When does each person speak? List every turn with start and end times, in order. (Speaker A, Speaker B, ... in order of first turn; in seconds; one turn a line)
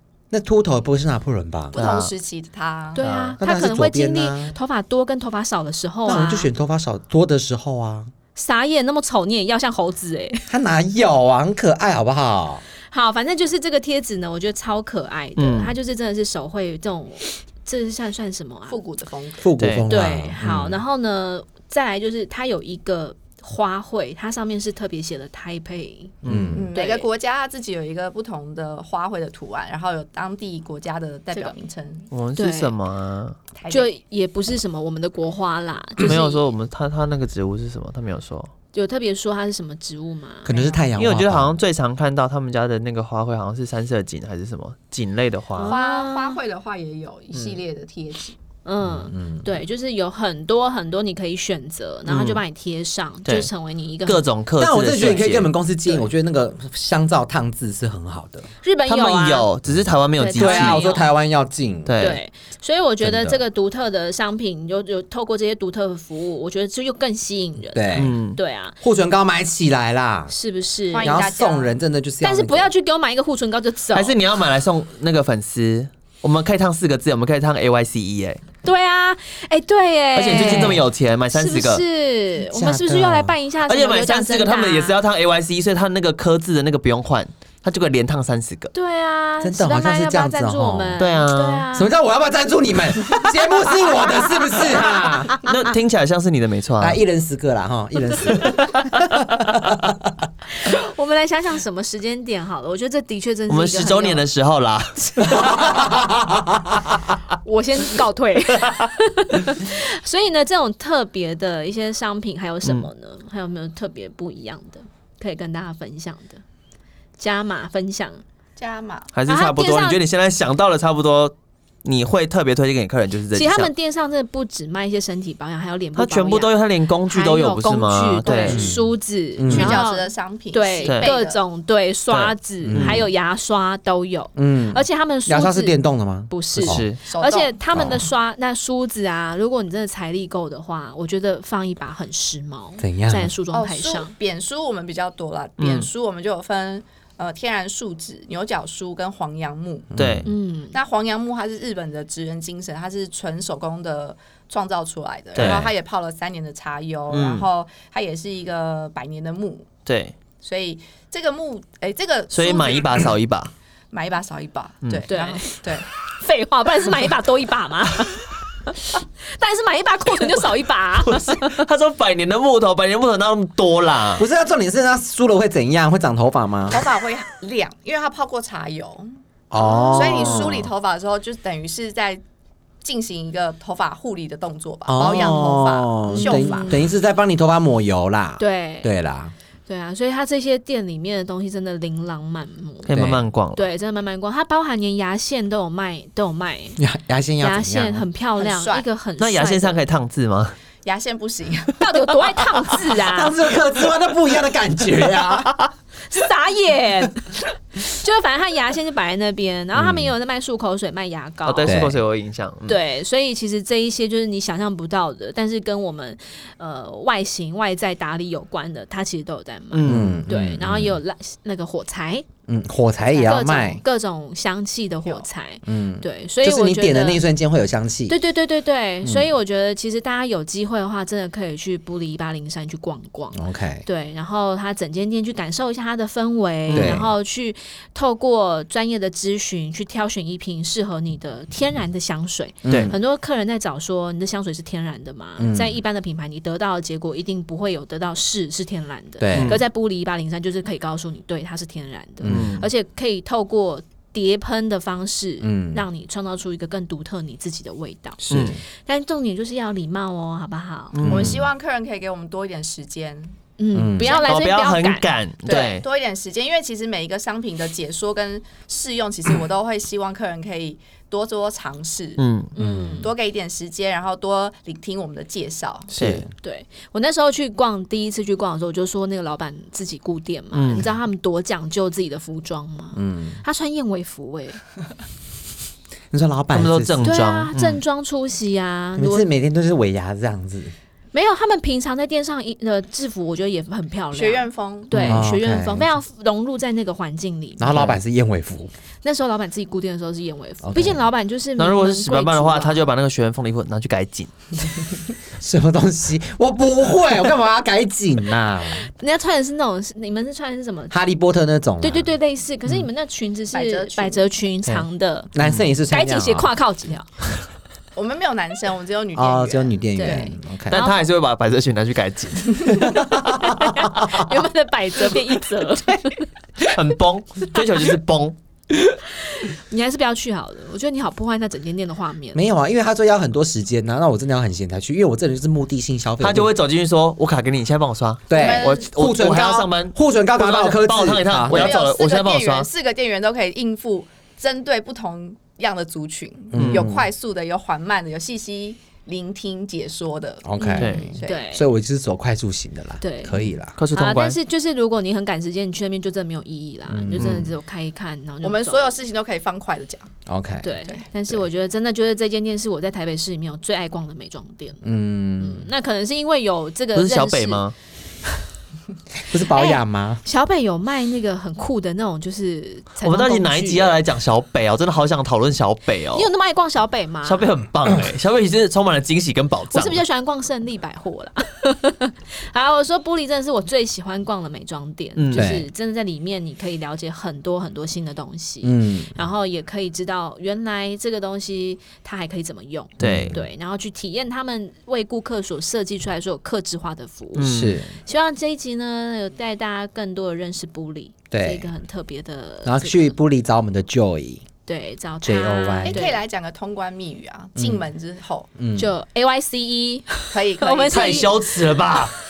Speaker A: 0.3-1.8
Speaker B: 1.7-3.0
Speaker C: 1.8-2.1
Speaker D: 2.9-6.5
Speaker C: 3.0-3.4
Speaker A: 3.4-4.5
Speaker A: 6.0-8.1
Speaker D: 8.3-10.5
Speaker A: 10.5-12.6
Speaker D: 12.9-18.8
Speaker C: 15.4-15.7
Speaker B: 18.7-19.4
Speaker A: 19.4-20.8
Speaker C: 19.6-19.9
Speaker D: 19.9-26.1
Speaker C: 26.2-26.6
Speaker A: 26.2-26.7
Speaker B: 26.5-32.1
Speaker D: 26.7-27.1
Speaker C: 32.1-33.4
Speaker D: 32.4-32.7
Speaker B: 33.5-33.9
Speaker D: 33.7-36.4
Speaker C: 36.0-38.5
Speaker D: 38.7-40.8
Speaker A: 40.4-41.6
Speaker B: 40.5-40.8
Speaker C: 41.0-45.7
Speaker D: 45.5-46.4
Speaker B: 45.6-48.4
Speaker C: 47.3-47.6
Speaker D: 48.6-54.2
Speaker A: 48.8-49.5
Speaker C: 52.1-52.4
Speaker C: 53.2-53.5
Speaker C: 54.0-55.5
Speaker A: 54.6-58.5
Speaker D: 58.6-59.5
Speaker C: 58.9-60.8
Speaker D: 60.2-61.0
Speaker A: 60.3-61.9
Speaker C: 61.9-62.2
Speaker D: 62.0-68.8
Speaker A: 63.0-63.4
Speaker A: 67.7-68.2
Speaker C: 67.9-68.4
Speaker A: 68.8-70.3
Speaker D: 70.3-71.3
Speaker B: 70.9-71.7
Speaker A: 71.0-72.7
Speaker D: 72.2-74.1
Speaker C: 73.9-78.4
Speaker D: 78.6-85.0
Speaker C: 80.1-81.8
Speaker A: 82.4-83.3
Speaker C: 83.7-88.7
Speaker D: 88.7-91.9
Speaker A: 89.4-91.0
Speaker C: 91.0-91.6
Speaker A: 91.7-95.4
Speaker C: 95.4-97.0
Speaker A: 96.8-100.1
Speaker D: 100.5-104.2
Speaker C: 103.5-105.5
Speaker A: 105.2-106.9
Speaker D: 107.4-116.4
Speaker D: 117.2-118.2
Speaker B: 118.6-119.1
Speaker C: 119.1-123.7
Speaker D: 119.2-120.0
Speaker D: 123.3-126.5
Speaker C: 126.0-128.7
Speaker D: 127.1-144.1
Speaker B: 128.2-128.7
Speaker A: 128.5-128.8
Speaker A: 129.4-129.8
Speaker B: 129.4-131.4
Speaker C: 130.8-131.1
Speaker C: 132.1-133.1
Speaker A: 132.6-133.1
Speaker A: 134.3-136.8
Speaker C: 136.6-137.0
Speaker B: 137.1-137.5
Speaker A: 137.7-138.0
Speaker A: 142.8-143.3
Speaker B: 143.5-149.9
Speaker C: 145.6-145.9
Speaker A: 149.9-150.3
Speaker C: 149.9-150.3
Speaker D: 150.2-150.8
Speaker B: 150.7-159.7
Speaker C: 155.3-155.7
Speaker A: 155.4-155.7
Speaker C: 157.1-157.4
Speaker C: 159.8-160.1
Speaker B: 160.4-163.1
Speaker C: 162.3-163.5
Speaker B: 163.9-165.9
Speaker D: 165.1-171.6
Speaker C: 171.0-174.2
Speaker A: 174.2-176.8
Speaker B: 176.7-179.1
Speaker A: 179.5-180.7
Speaker D: 179.6-180.3
Speaker B: 179.9-182.2
Speaker B: 182.8-186.8
Speaker A: 184.9-189.3
Speaker D: 186.1-186.9
Speaker D: 188.4-188.9
Speaker D: 189.7-196.8
Speaker C: 192.8-193.6
Speaker A: 192.9-193.2
Speaker A: 196.8-198.1
Speaker D: 197.4-199.8
Speaker B: 198.4-198.8
Speaker C: 199.2-200.5
Speaker B: 200.8-202.4
Speaker D: 201.8-203.3
Speaker A: 203.0-205.6
Speaker D: 206.1-211.8
Speaker A: 209.7-210.1
Speaker C: 211.4-212.8
Speaker A: 211.6-212.0
Speaker D: 212.7-222.2
Speaker C: 219.7-220.2
Speaker A: 219.8-221.0
Speaker A: 222.5-223.8
Speaker D: 223.1-227.2
Speaker A: 225.6-228.2
Speaker D: 228.1-261.0
Speaker A: 229.0-229.3
Speaker A: 233.3-233.8
Speaker C: 236.7-237.1
Speaker A: 236.7-237.1
Speaker A: 242.6-243.0
Speaker C: 242.7-242.9
Speaker A: 245.4-245.8
Speaker A: 249.2-249.6
Speaker C: 249.3-249.6
Speaker A: 252.2-252.5
Speaker C: 252.2-252.7
Speaker A: 255.4-255.8
Speaker A: 258.2-258.6
Speaker C: 258.3-258.6
Speaker C: 260.9-261.4
Speaker A: 261.0-261.4
Speaker B: 261.1-263.3
Speaker D: 263.6-265.1
Speaker A: 263.7-264.1
Speaker B: 264.0-264.3
Speaker C: 264.1-265.8
Speaker B: 265.4-272.2
Speaker C: 272.2-272.5
Speaker D: 272.5-273.1
Speaker A: 272.6-273.0
Speaker B: 273.0-275.9
Speaker C: 275.9-276.2
Speaker A: 275.9-276.3
Speaker D: 276.4-284.6
Speaker C: 280.5-280.9
Speaker A: 282.9-283.4
Speaker A: 286.1-287.1
Speaker C: 286.5-287.8
Speaker D: 287.0-289.3
Speaker A: 288.9-290.7
Speaker D: 291.1-297.9
Speaker B: 294.1-294.9
Speaker C: 294.9-295.2
Speaker A: 295.0-295.9
Speaker A: 297.6-298.7
Speaker C: 297.7-298.0
Speaker D: 299.0-302.9
Speaker A: 300.6-301.0
Speaker C: 301.6-304.3
Speaker A: 305.4-308.9
Speaker D: 308.9-311.0
Speaker A: 310.9-312.1
Speaker D: 311.8-315.3
Speaker B: 313.5-314.2
Speaker A: 315.3-316.5
Speaker C: 315.4-315.6
Speaker D: 315.9-317.1
Speaker B: 317.9-319.8
Speaker A: 319.1-320.8
Speaker D: 319.9-321.0
Speaker C: 320.7-323.0
Speaker A: 322.7-323.4
Speaker D: 322.8-326.3
Speaker C: 326.6-328.4
Speaker D: 329.2-332.4
Speaker A: 332.3-336.5
Speaker C: 336.2-342.7
Speaker A: 338.3-341.7
Speaker B: 338.3-338.9
Speaker B: 341.5-351.4
Speaker A: 346.5-347.1
Speaker C: 346.5-346.9
Speaker A: 350.4-353.8
Speaker D: 350.6-351.7
Speaker C: 350.8-351.1
Speaker D: 353.0-358.9
Speaker C: 353.8-354.4
Speaker A: 356.9-357.5
Speaker B: 358.4-360.1
Speaker A: 360.3-360.7
Speaker D: 360.6-364.8
Speaker A: 364.8-365.7
Speaker D: 365.4-367.7
Speaker C: 366.9-367.7
Speaker A: 369.2-370.2
Speaker D: 369.4-374.0
Speaker C: 373.0-376.3
Speaker D: 376.1-377.4
Speaker C: 377.2-380.0
Speaker D: 379.7-403.1
Speaker C: 385.1-385.5
Speaker A: 385.3-385.7
Speaker A: 388.6-389.1
Speaker C: 393.0-393.4
Speaker A: 393.0-393.4
Speaker C: 397.4-397.8
Speaker A: 397.4-398.0
Speaker A: 401.3-401.7
Speaker A: 402.6-404.4
Speaker D: 404.6-406.2
Speaker A: 405.2-406.1
Speaker B: 405.8-408.5
Speaker A: 407.6-407.8
Speaker A: 408.6-408.9
Speaker D: 408.8-411.8
Speaker B: 410.3-411.3
Speaker C: 410.9-412.1